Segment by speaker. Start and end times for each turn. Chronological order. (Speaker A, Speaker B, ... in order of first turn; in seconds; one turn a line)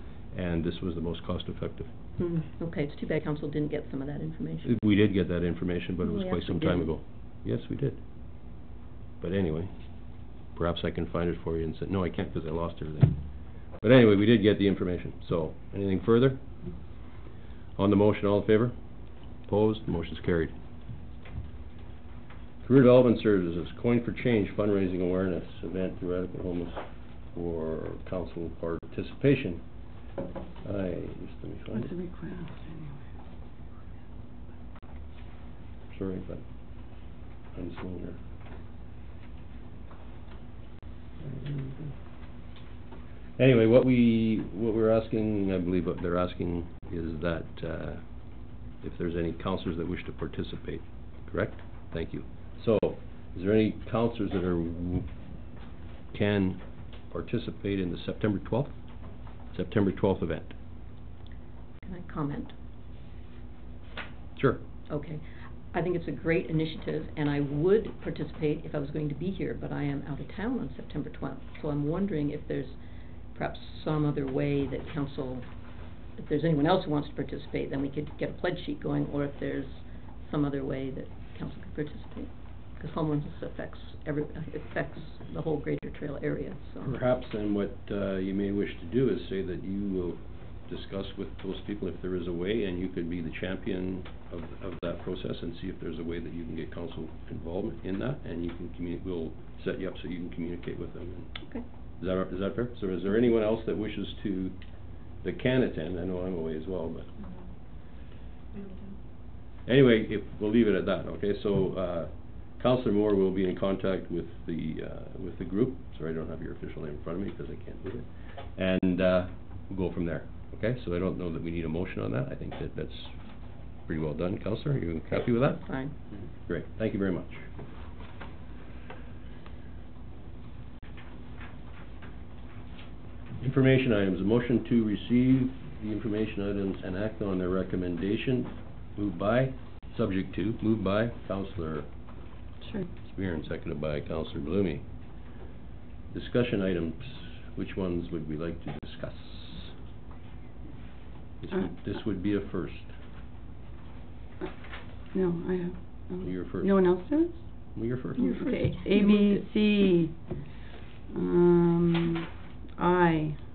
Speaker A: 0.3-1.9
Speaker B: 2.2-4.8
Speaker A: 4.6-8.0
Speaker B: 6.0-6.9
Speaker A: 9.2-9.7
Speaker A: 10.5-13.2
Speaker A: 13.8-16.4
Speaker A: 17.8-18.7
Speaker A: 19.5-20.5
Speaker A: 22.6-29.6
Speaker A: 30.6-31.9
Speaker C: 31.7-32.9
Speaker A: 35.9-36.4
Speaker A: 37.5-38.2
Speaker A: 41.2-41.9
Speaker A: 43.4-48.0
Speaker A: 48.8-55.1
Speaker A: 56.1-56.6
Speaker A: 57.1-58.7
Speaker A: 59.5-60.5
Speaker B: 61.8-62.5
Speaker A: 64.4-64.6
Speaker B: 64.9-72.8
Speaker B: 73.3-75.5
Speaker B: 76.2-87.0
Speaker A: 86.8-101.3
Speaker A: 102.0-104.6
Speaker A: 105.2-107.1
Speaker A: 109.7-123.2
Speaker A: 123.9-125.6
Speaker B: 125.1-125.9
Speaker A: 126.5-127.5
Speaker A: 133.4-141.9
Speaker C: 142.6-142.9
Speaker A: 143.0-144.8
Speaker A: 146.1-149.8
Speaker A: 151.4-152.9
Speaker C: 155.1-157.4
Speaker A: 156.2-156.7
Speaker A: 157.7-158.3
Speaker C: 158.2-160.1
Speaker B: 158.2-159.4
Speaker C: 161.1-162.3
Speaker C: 162.8-163.4